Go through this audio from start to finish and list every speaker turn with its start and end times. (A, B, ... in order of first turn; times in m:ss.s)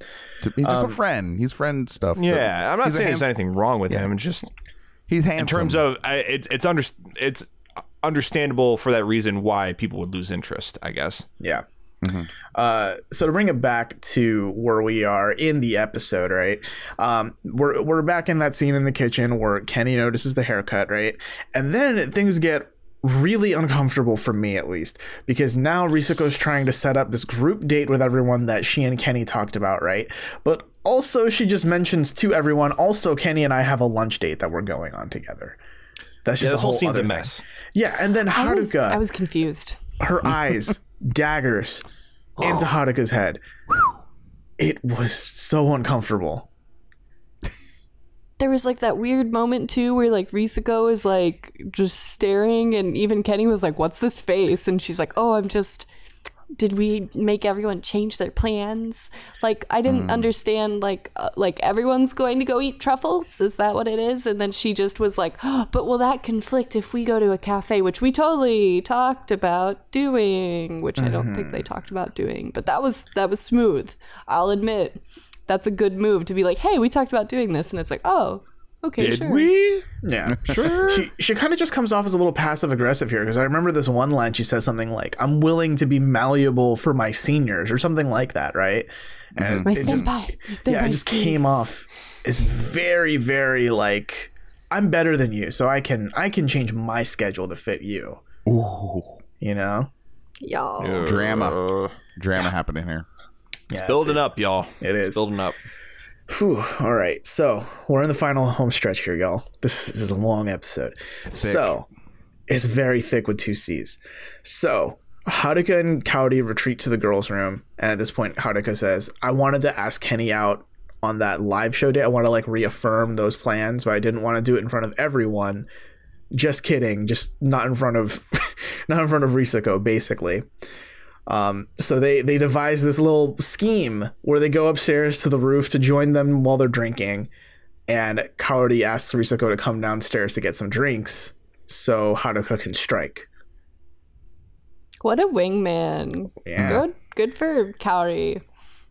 0:00.4-0:03.3 A
0:00.6-0:01.0 B
0:02.2-0:04.5 C
0:05.1-0:05.8 A
0:05.4-0:07.5 C
0:08.0-0:11.3 C
0:12.0-0:12.3 A
0:12.5-0:35.6 B
0:36.2-0:39.0 B
0:36.4-0:37.4 C
0:38.3-0:39.8 D
0:40.0-0:41.8 B
0:42.4-0:43.4 B
0:44.6-0:46.5 B
0:48.4-0:55.9 D
0:56.5-1:19.5 D
0:59.9-1:00.3 A
1:11.0-1:11.7 B
1:19.0-1:19.9 C
1:20.0-1:38.2 B
1:20.3-1:20.8 A
1:20.4-1:21.1 C
1:29.4-1:30.1 A
1:29.6-1:31.7 D
1:38.5-1:39.2 A
1:39.4-1:39.9 B
1:40.4-1:41.2 D
1:40.8-1:41.9 C
1:41.0-1:41.6 A
1:42.2-1:43.1 A
1:43.7-1:44.2 B
1:43.8-1:45.6 C
1:44.8-1:45.2 B
1:46.3-1:51.9 B
1:51.3-1:51.8 A
1:52.5-2:05.7 B
2:06.3-2:10.5 B
2:11.3-2:17.3 B
2:17.9-2:23.3 B
2:25.0-2:28.4 D
2:26.4-2:26.8 B
2:26.6-2:26.8 A